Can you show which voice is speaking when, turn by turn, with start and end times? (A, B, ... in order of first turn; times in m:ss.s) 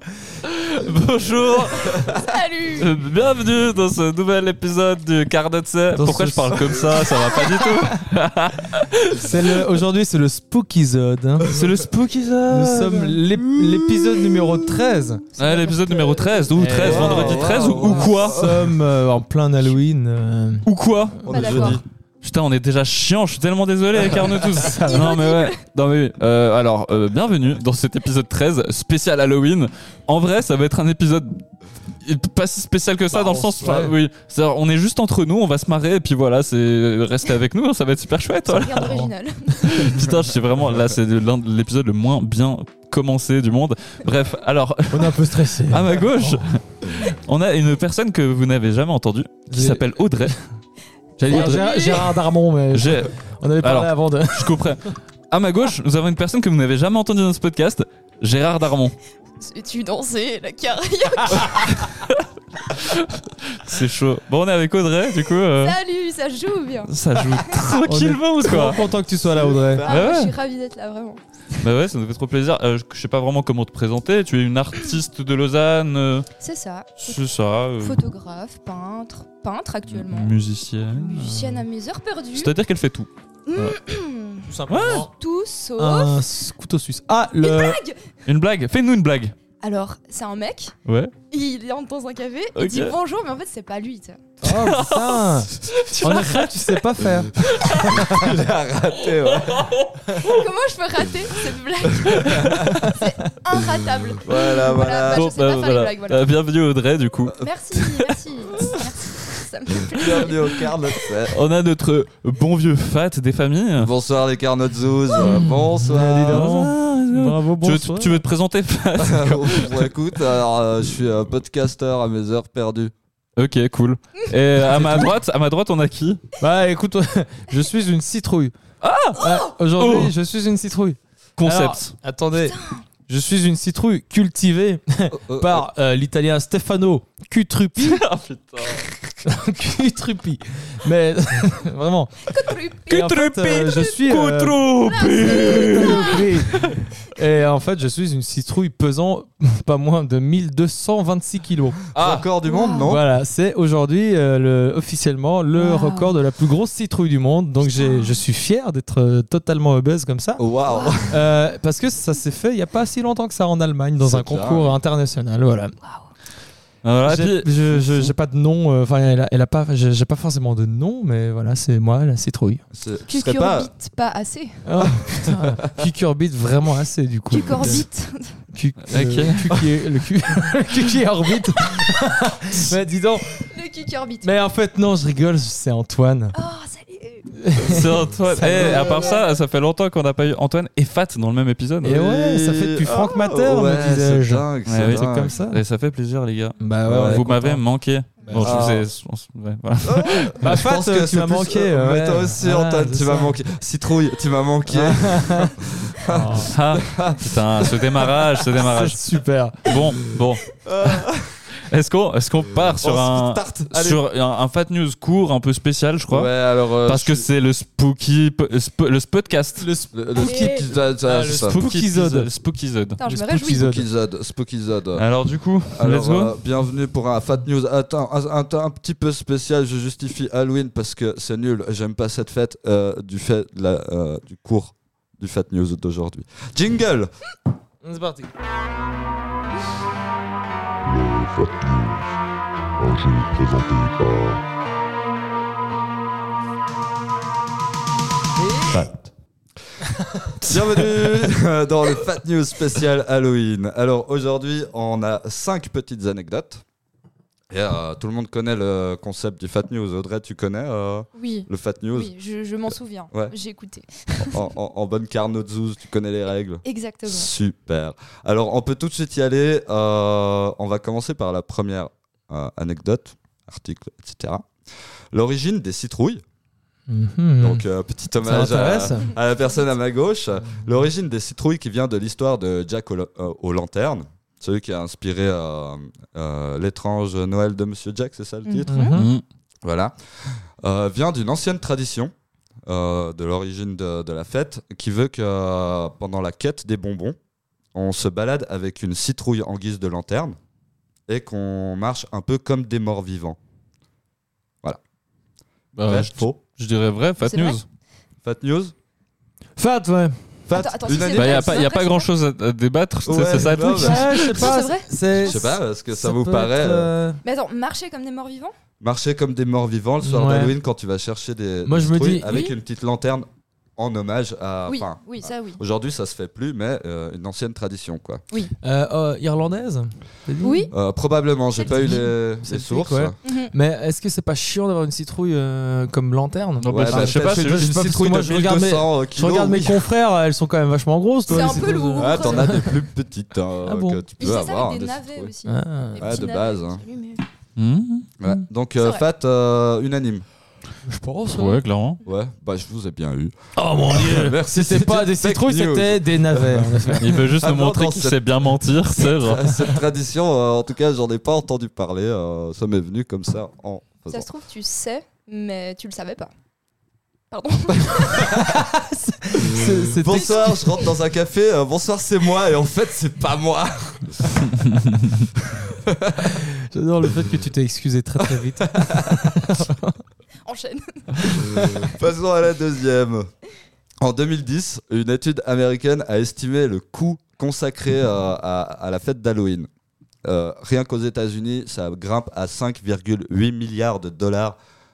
0:00.4-0:02.1 A
0:01.8-0:02.9 B
0:02.8-0:09.3 A
0:06.0-0:07.9 C
0:09.2-0:11.5 C
0:11.5-0:13.2 A
0:12.5-0:15.2 C
0:15.4-0:16.4 B
0:15.4-0:18.6 A
0:16.5-0:20.7 C
0:16.8-0:18.7 D
0:20.7-0:21.7 A
0:21.2-0:21.8 D
0:21.3-0:21.8 C
0:21.3-0:21.8 B
0:22.2-0:31.4 A
0:24.5-0:25.0 C
0:24.8-0:25.6 B
0:32.0-0:39.1 A
0:33.1-0:34.0 C
0:38.5-0:40.1 B
0:38.8-0:39.1 C
0:39.6-0:50.4 A
0:44.9-0:46.4 C
0:49.5-0:50.4 C
0:51.2-0:52.1 A
0:51.2-0:54.6 C
0:51.3-0:52.1 B
0:52.7-0:59.0 A
0:59.4-1:01.9 B
1:01.7-1:05.8 A
1:05.6-1:07.8 B
1:06.9-1:08.8 A
1:07.8-1:09.8 C
1:09.3-1:10.1 D
1:09.8-1:11.2 B
1:09.9-1:10.4 A
1:11.6-1:16.3 A
1:16.4-1:17.2 B
1:17.0-1:18.0 A
1:17.8-1:20.3 B
1:19.9-1:21.6 A
1:21.0-1:22.5 B
1:21.2-1:21.5 C
1:22.3-1:23.8 A
1:23.5-1:26.2 B
1:24.5-1:25.1 C
1:24.7-1:25.1 A
1:25.8-1:27.8 C
1:27.4-1:28.2 B
1:28.3-1:29.4 A
1:29.6-1:30.7 B
1:30.9-1:31.1 A
1:31.3-1:34.2 B
1:32.6-1:33.0 A
1:34.4-1:38.3 C
1:34.5-1:36.7 A
1:37.4-1:38.2 A
1:38.0-1:39.7 D
1:39.2-1:40.4 A
1:40.2-1:46.2 B
1:41.9-1:42.5 D
1:42.2-1:42.9 A
1:44.2-1:45.3 D
1:45.1-1:48.8 A
1:47.4-1:50.7 B
1:49.9-1:51.4 D
1:51.3-1:53.9 A
1:53.8-1:56.5 D
1:55.2-1:58.2 C
1:56.3-1:59.9 A
1:59.0-2:02.9 D
2:03.4-2:06.2 A
2:04.7-2:05.1 C
2:06.4-2:08.5 C
2:08.8-2:10.1 A
2:09.2-2:18.0 C
2:11.4-2:11.9 A
2:12.4-2:12.8 B
2:15.2-2:15.7 D
2:17.8-2:18.9 A
2:19.2-2:24.6 C
2:22.3-2:23.1 B
2:22.9-2:26.7 A
2:24.8-2:26.3 B
2:25.6-2:31.8 C
2:31.9-2:33.0 D
2:32.0-2:32.3 A
2:32.4-2:32.9 B
2:32.9-2:40.4 C
2:35.6-2:36.1 B
2:37.6-2:38.2 B
2:40.4-2:41.2 D
2:40.7-2:41.1 B
2:41.1-2:45.8 C
2:44.0-2:44.8 D
2:46.8-2:48.1 A
2:47.0-2:52.6 C
2:52.7-2:53.7 D
2:53.1-2:54.6 B
2:54.6-2:57.9 C
2:57.3-2:58.4 B
2:58.5-3:03.4 C
2:58.9-2:59.5 A
3:03.4-3:04.3 B
3:04.2-3:06.4 C
3:06.4-3:07.5 B
3:07.4-3:09.1 C
3:07.6-3:12.0 A
3:08.6-3:09.3 B
3:11.8-3:15.6 C
3:11.8-3:15.3 D
3:14.7-3:20.3 A
3:16.6-3:17.6 C
3:16.9-3:17.2 D
3:18.2-3:18.8 C
3:18.4-3:18.9 D
3:19.8-3:28.2 D
3:20.4-3:23.4 C
3:24.7-3:26.5 C
3:26.5-3:29.0 A
3:28.6-3:29.7 C
3:29.6-3:30.6 A
3:30.6-3:31.3 D
3:31.7-3:36.3 A
3:32.8-3:34.0 D
3:36.1-3:37.3 D
3:36.8-3:39.7 A
3:39.6-3:42.3 C
3:39.9-3:41.6 D
3:40.2-3:40.7 B
3:41.3-3:43.0 A
3:43.0-3:43.7 B
3:43.0-3:43.8 C
3:43.5-3:45.1 D
3:45.0-3:46.3 A
3:45.8-3:57.1 D
3:57.8-3:58.3 C
4:00.8-4:02.1 E
4:02.8-4:04.4 E
4:08.4-4:08.8 C
4:10.4-4:16.6 D
4:17.5-4:22.1 D
4:21.2-4:24.5 B
4:22.7-4:23.4 D
4:24.2-4:34.5 D
4:26.6-4:27.3 B
4:35.1-4:36.2 D
4:36.9-4:37.7 C
4:37.4-4:48.9 D
4:38.2-4:39.2 C
4:48.5-4:49.0 B
4:48.7-4:49.1 C
4:48.9-4:49.2 A
4:49.6-4:52.1 D
4:52.7-4:57.2 D
4:57.7-5:00.4 D
5:01.1-5:03.4 D
5:05.8-5:07.6 A
5:05.9-5:06.4 D
5:07.2-5:07.6 B
5:08.2-5:08.7 D
5:09.6-5:10.4 C
5:10.5-5:11.7 D
5:10.5-5:12.1 B
5:11.1-5:14.6 A
5:13.1-5:14.1 D
5:13.3-5:17.2 C
5:13.8-5:15.6 B
5:15.2-5:16.9 D
5:17.2-5:18.5 B
5:18.8-5:28.2 D
5:20.0-5:20.5 C
5:21.7-5:22.3 C
5:22.3-5:22.5 B
5:24.7-5:25.6 B
5:28.6-5:30.7 C
5:30.4-5:30.7 B
5:30.7-5:33.2 D
5:31.6-5:32.0 B
5:31.6-5:42.8 C
5:33.2-5:33.5 B
5:36.6-5:37.7 A
5:36.6-5:39.9 D
5:41.3-5:42.7 B
5:41.3-5:45.3 D
5:43.6-5:44.0 C
5:44.2-5:47.2 B
5:45.4-5:46.2 C
5:46.0-5:46.8 D
5:47.6-5:48.1 A
5:48.2-5:50.2 D
5:48.8-5:49.0 B
5:50.9-5:51.6 C
5:51.3-5:52.0 A
5:52.0-5:53.3 D
5:53.6-5:57.3 C
5:53.9-6:04.3 D
5:57.0-5:59.6 A
6:04.1-6:06.3 B
6:07.3-6:08.7 B
6:08.2-6:10.4 C
6:09.5-6:14.8 D
6:10.1-6:10.9 B
6:15.4-6:16.4 D
6:16.7-6:20.0 C
6:18.4-6:19.3 D
6:20.5-6:21.4 B
6:21.2-6:21.9 C
6:21.4-6:23.3 D
6:24.0-6:29.7 D
6:30.2-6:34.6 D